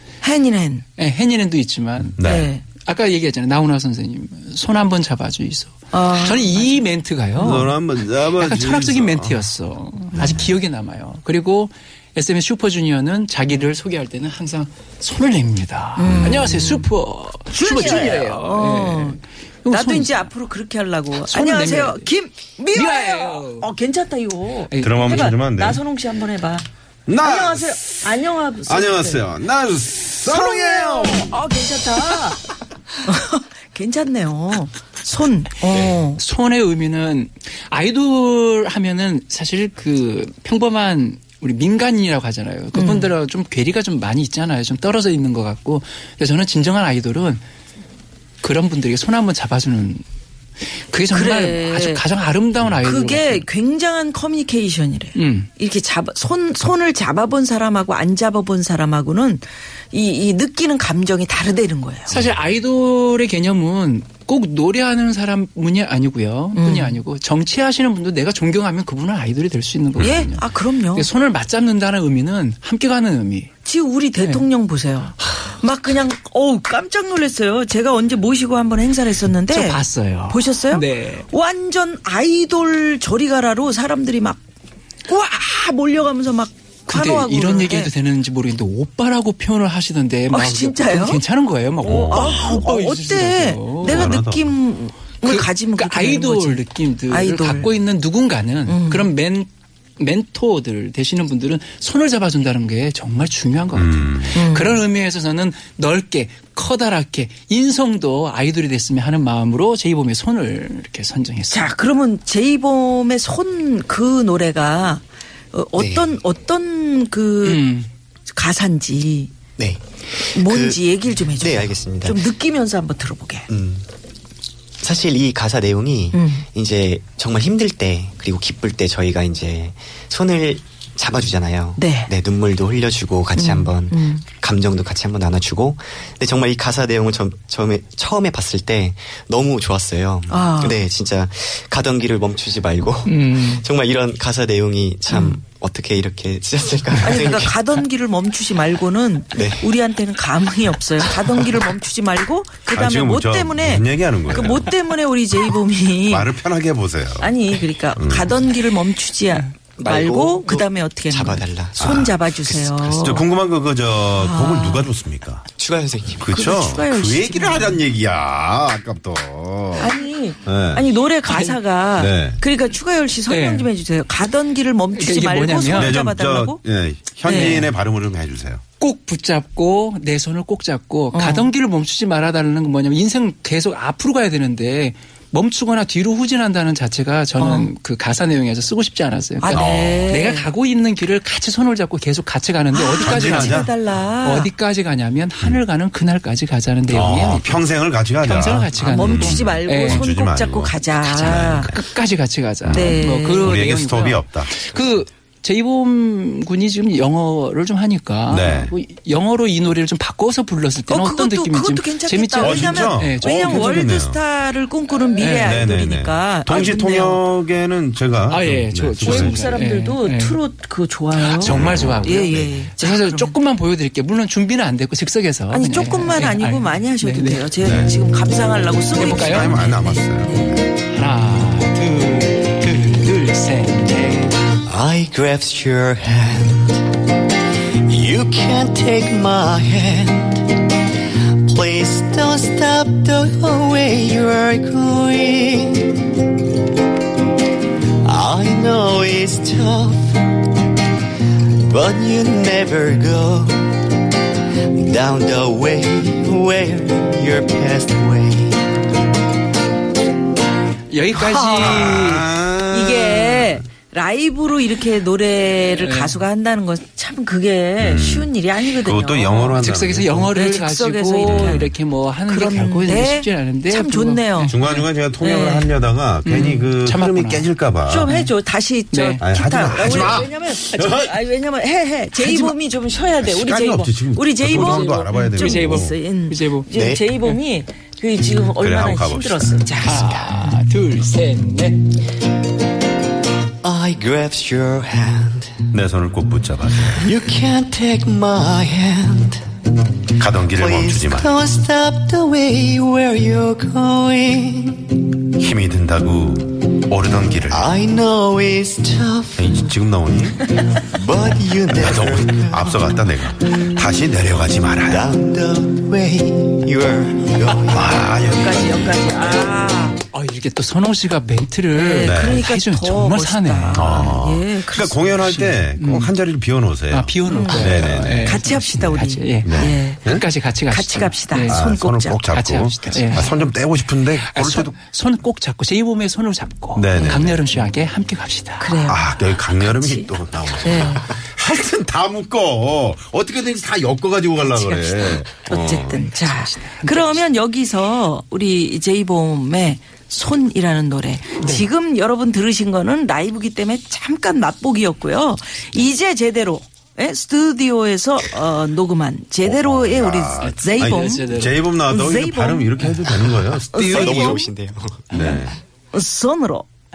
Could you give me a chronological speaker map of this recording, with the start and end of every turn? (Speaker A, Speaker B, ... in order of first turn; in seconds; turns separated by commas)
Speaker A: 0.2-0.8, Speaker B: 1.0-2.2, Speaker C: 2.2-2.5, Speaker A: 2.2-2.6, Speaker B: 2.7-7.8, Speaker A: 5.9-6.7, Speaker C: 7.4-9.4, Speaker B: 8.4-20.3, Speaker C: 10.2-10.5, Speaker A: 16.0-16.9, Speaker C: 16.0-16.5, Speaker A: 17.5-19.2, Speaker A: 19.7-26.6, Speaker B: 21.2-22.1, Speaker B: 22.7-23.7, Speaker B: 24.7-25.3, Speaker C: 24.8-25.8, Speaker C: 27.1-28.0, Speaker A: 27.2-29.2, Speaker C: 28.7-31.4, Speaker A: 30.3-32.4, Speaker A: 33.0-36.2, Speaker B: 36.2-47.4, Speaker A: 42.8-43.1, Speaker B: 48.4-50.0, Speaker B: 50.7-53.5, Speaker A: 51.1-52.0, Speaker A: 52.8-62.1, Speaker B: 55.1-55.5, Speaker B: 62.1-73.5, Speaker A: 66.5-67.0, Speaker A: 70.0-71.1, Speaker A: 73.7-84.4, Speaker B: 75.2-75.5, Speaker B: 79.5-81.3, Speaker A: 85.1-87.9, Speaker B: 86.9-94.2, Speaker A: 90.3-91.2, Speaker C: 91.8-92.6, Speaker A: 91.8-97.7, Speaker C: 93.8-94.5, Speaker B: 95.2-111.7, Speaker A: 98.7-99.1, Speaker C: 103.8-104.4, Speaker A: 104.3-104.8, Speaker A: 111.5-117.7, Speaker D: 115.8-116.2, Speaker B: 117.4-117.9, Speaker A: 118.3-119.3, Speaker D: 119.6-120.8, Speaker A: 120.3-123.5, Speaker D: 121.4-122.2, Speaker D: 123.5-123.9, Speaker D: 124.8-147.6, Speaker A: 126.1-126.5, Speaker A: 131.8-132.1, Speaker A: 133.4-134.2, Speaker A: 140.3-140.8, Speaker B: 143.1-143.7, Speaker A: 145.1-145.4, Speaker A: 147.0-156.3, Speaker D: 149.3-149.7, Speaker C: 152.7-154.7, Speaker C: 156.1-157.3, Speaker A: 157.2-163.3, Speaker C: 157.9-158.3, Speaker D: 159.8-163.2, Speaker C: 163.0-165.4, Speaker A: 164.2-164.9, Speaker D: 165.6-166.5, Speaker C: 166.2-169.9, Speaker A: 166.3-167.8, Speaker A: 169.8-176.6, Speaker C: 170.5-170.8, Speaker B: 171.3-171.6, Speaker C: 172.0-172.4, Speaker B: 173.3-173.7, Speaker B: 174.9-176.0, Speaker C: 175.7-178.6, Speaker A: 177.2-177.6, Speaker B: 177.3-177.7, Speaker B: 178.8-193.7, Speaker A: 181.1-181.5, Speaker A: 187.4-187.7, Speaker A: 189.4-190.5, Speaker C: 189.5-190.1, Speaker A: 192.7-194.5, Speaker C: 193.0-193.7, Speaker B: 194.2-197.6, Speaker C: 196.9-201.8, Speaker B: 198.2-200.1, Speaker A: 198.8-201.7, Speaker B: 201.7-213.9, Speaker C: 202.6-204.7, Speaker A: 202.7-203.6, Speaker C: 208.3-208.7, Speaker A: 210.9-217.2, Speaker C: 212.4-214.2, Speaker B: 215.2-215.6, Speaker C: 215.4-219.4, Speaker B: 218.3-220.4, Speaker A: 219.0-223.3, Speaker B: 221.2-227.5, Speaker C: 221.4-222.5, Speaker A: 225.5-230.6, Speaker C: 227.6-227.9, Speaker B: 228.9-229.9, Speaker C: 228.9-230.7, Speaker B: 230.9-234.3, Speaker D: 234.7-236.9, Speaker D: 237.8-246.2, Speaker D: 248.0-250.4, Speaker D: 251.3-253.9, Speaker D: 254.5-258.8, Speaker B: 260.9-262.3, Speaker A: 261.2-262.2, Speaker C: 261.6-263.6, Speaker A: 262.7-269.6, Speaker B: 265.8-266.1, Speaker C: 267.8-270.3, Speaker B: 269.6-274.9, Speaker A: 270.3-271.7, Speaker C: 271.2-271.7, Speaker A: 272.3-274.6, Speaker C: 274.5-278.1, Speaker A: 275.2-275.7, Speaker B: 276.2-277.5, Speaker A: 277.9-290.6, Speaker B: 278.9-279.2, Speaker C: 279.2-281.1, Speaker B: 282.2-282.5, Speaker C: 283.2-285.9, Speaker B: 284.5-286.7, Speaker D: 286.7-287.1, Speaker C: 288.3-289.7, Speaker B: 289.8-291.9, Speaker D: 293.6-295.7, Speaker C: 295.7-297.1, Speaker D: 296.9-299.4, Speaker C: 300.2-301.3, Speaker D: 300.4-305.1, Speaker C: 305.4-307.7, Speaker D: 307.5-309.8, Speaker C: 309.4-310.4, Speaker D: 310.8-313.4, Speaker C: 311.7-315.1, Speaker D: 314.9-318.3, Speaker C: 317.7-319.0, Speaker A: 318.1-320.0, Speaker B: 320.1-324.2, Speaker A: 321.7-325.2, Speaker C: 322.0-322.4, Speaker C: 323.8-328.4, Speaker B: 325.2-326.1, Speaker B: 326.9-331.6, Speaker A: 327.3-333.4, Speaker C: 329.4-330.2, Speaker C: 331.5-334.7, Speaker B: 332.3-333.3, Speaker B: 334.2-338.8, Speaker C: 336.8-337.5, Speaker A: 338.6-340.1, Speaker C: 338.9-346.0, Speaker A: 340.6-341.1, Speaker A: 344.6-361.3, Speaker B: 346.0-347.2, Speaker B: 351.4-351.7, Speaker C: 359.5-364.4, Speaker B: 360.4-361.6, Speaker A: 361.9-363.1, Speaker A: 363.7-364.5, Speaker D: 363.8-365.1, Speaker C: 365.1-365.6, Speaker A: 365.1-365.4, Speaker A: 365.9-366.7